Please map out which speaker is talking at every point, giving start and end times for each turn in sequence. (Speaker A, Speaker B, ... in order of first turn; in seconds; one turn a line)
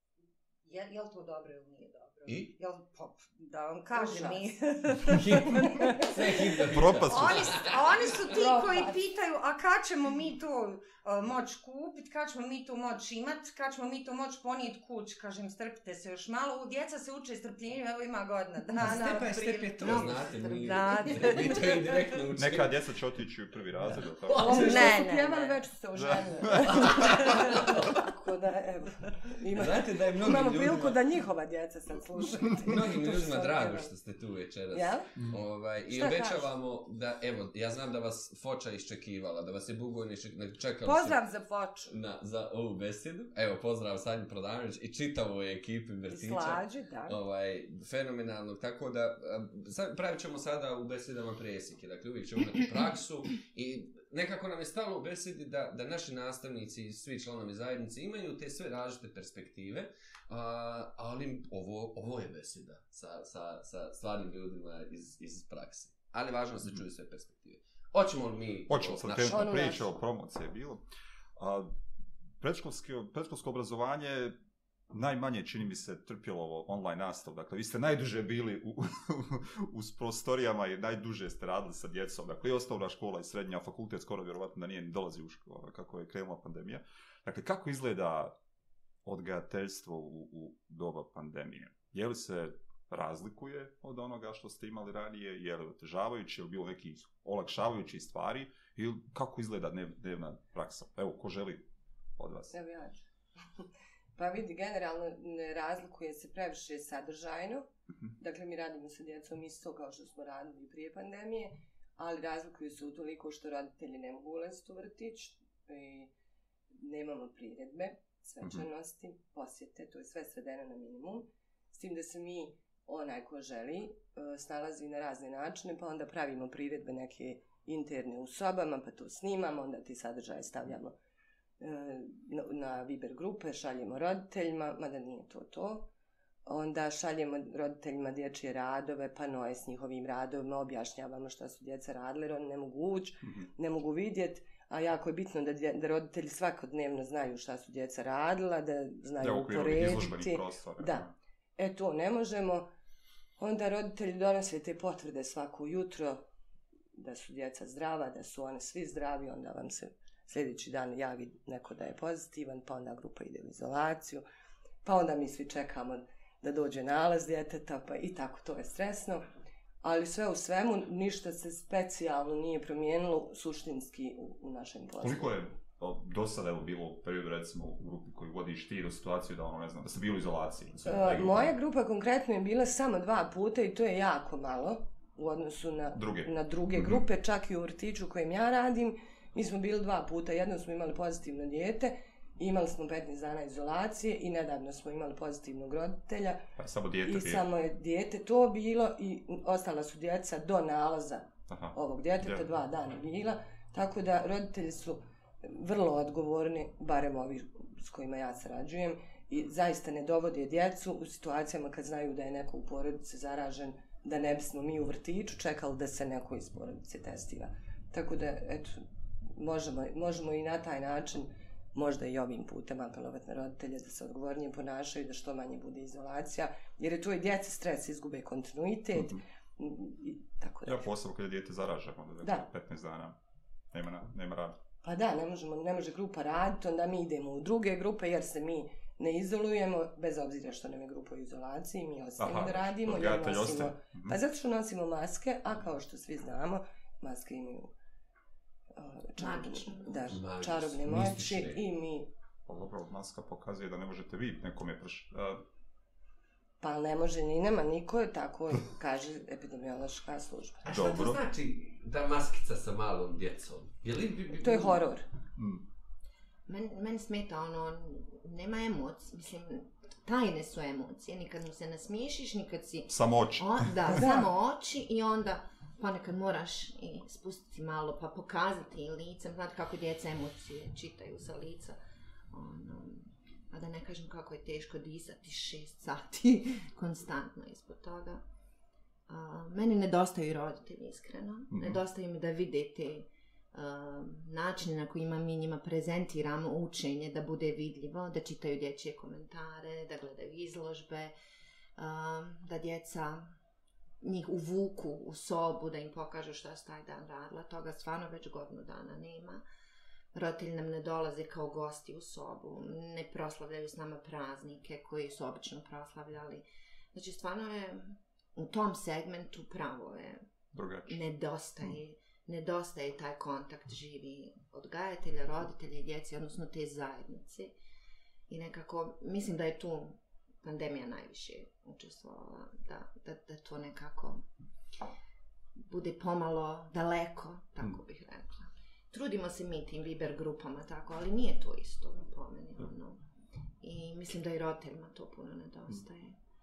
Speaker A: 0.7-6.1
Speaker B: 2.3-2.5
Speaker C: 3.9-4.5
Speaker B: 5.1-7.8
Speaker C: 5.6-6.0
Speaker D: 6.7-7.6
Speaker A: 7.1-22.0
Speaker C: 8.2-9.0
Speaker B: 18.8-22.8
Speaker E: 19.8-20.9
Speaker D: 22.3-24.6
Speaker B: 23.8-25.0
Speaker C: 24.4-33.9
Speaker A: 24.4-25.6
Speaker D: 26.5-27.1
Speaker B: 26.7-28.0
Speaker B: 29.5-31.0
Speaker B: 32.5-41.2
Speaker C: 34.7-35.1
Speaker C: 35.9-36.5
Speaker C: 40.9-42.0
Speaker B: 41.9-69.6
Speaker C: 46.1-47.2
Speaker D: 68.7-70.8
Speaker C: 69.2-70.0
Speaker D: 71.4-71.7
Speaker D: 72.4-74.3
Speaker D: 74.9-88.3
Speaker D: 89.0-101.7
Speaker D: 102.2-102.5
Speaker C: 102.5-103.0
Speaker C: 104.2-107.7
Speaker C: 108.2-116.1
Speaker C: 116.7-130.9
Speaker C: 131.6-135.9
Speaker C: 136.4-151.1
Speaker D: 149.2-151.1
Speaker C: 151.6-152.7
Speaker C: 153.4-156.2
Speaker C: 157.0-164.2
Speaker C: 164.8-169.2
Speaker C: 169.8-175.4
Speaker D: 175.0-181.6
Speaker C: 180.8-196.5
Speaker D: 185.9-187.0
Speaker D: 196.6-197.4
Speaker C: 197.0-230.9
Speaker D: 201.5-202.5
Speaker D: 228.9-229.2
Speaker D: 230.7-233.2
Speaker C: 232.2-232.5
Speaker D: 233.7-234.6
Speaker C: 234.8-247.7
Speaker D: 242.2-244.2
Speaker C: 248.7-252.1
Speaker E: 249.2-250.1
Speaker B: 250.1-251.6
Speaker D: 252.5-255.4
Speaker C: 256.6-260.9
Speaker D: 260.7-261.2
Speaker B: 260.7-264.8
Speaker C: 264.4-265.1
Speaker D: 265.4-265.6
Speaker E: 266.5-281.8
Speaker D: 272.9-274.0
Speaker C: 274.0-274.3
Speaker E: 282.3-288.2
Speaker E: 289.1-301.1
Speaker D: 291.5-291.8
Speaker E: 301.8-303.3
Speaker E: 304.0-309.4
Speaker E: 310.1-320.2
Speaker D: 320.5-321.0
Speaker E: 320.9-327.5
Speaker E: 328.3-334.2
Speaker E: 335.6-343.0
Speaker E: 343.6-346.1